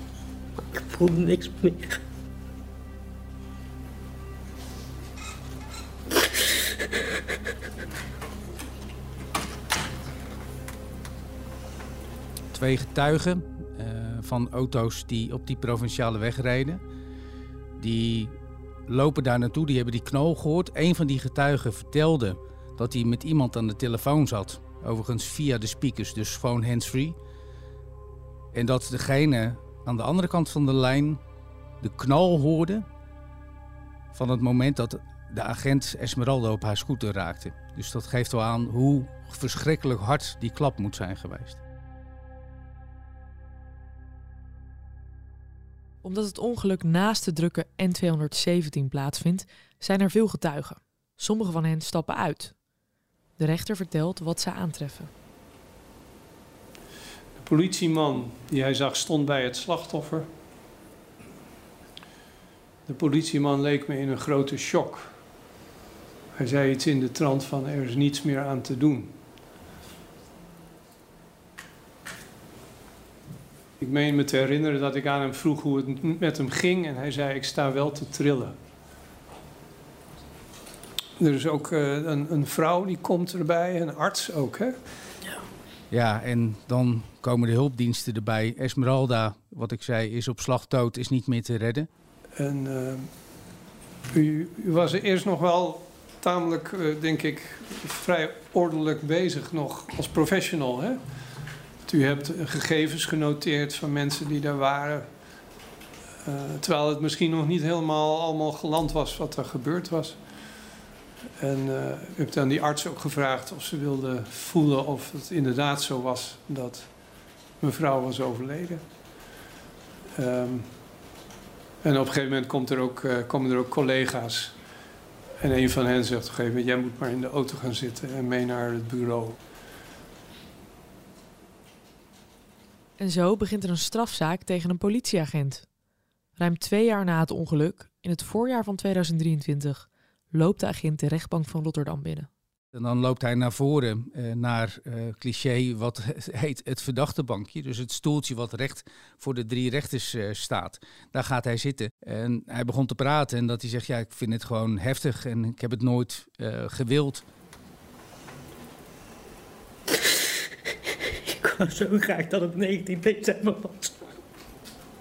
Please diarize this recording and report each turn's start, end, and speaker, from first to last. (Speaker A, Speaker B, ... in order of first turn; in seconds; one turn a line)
Speaker A: 0.7-1.9
Speaker B: 12.5-16.8
Speaker B: 17.8-18.3
Speaker B: 18.9-27.2
Speaker B: 28.5-31.2
Speaker B: 31.8-32.9
Speaker B: 34.1-41.6
Speaker C: 46.0-52.5
Speaker C: 53.4-55.1
Speaker D: 57.4-60.3
Speaker D: 62.9-65.2
Speaker D: 66.3-69.2
Speaker D: 73.8-78.6
Speaker D: 81.2-84.8
Speaker B: 85.9-91.9
Speaker D: 92.3-93.3
Speaker D: 94.1-101.3
Speaker D: 101.8-105.4
Speaker D: 106.2-110.7
Speaker D: 111.4-118.8
Speaker D: 120.1-120.8
Speaker D: 121.8-124.6
Speaker D: 125.4-129.4
Speaker C: 133.0-135.7
Speaker C: 136.4-142.3
Speaker B: 142.7-157.2
Speaker A: 161.3-163.9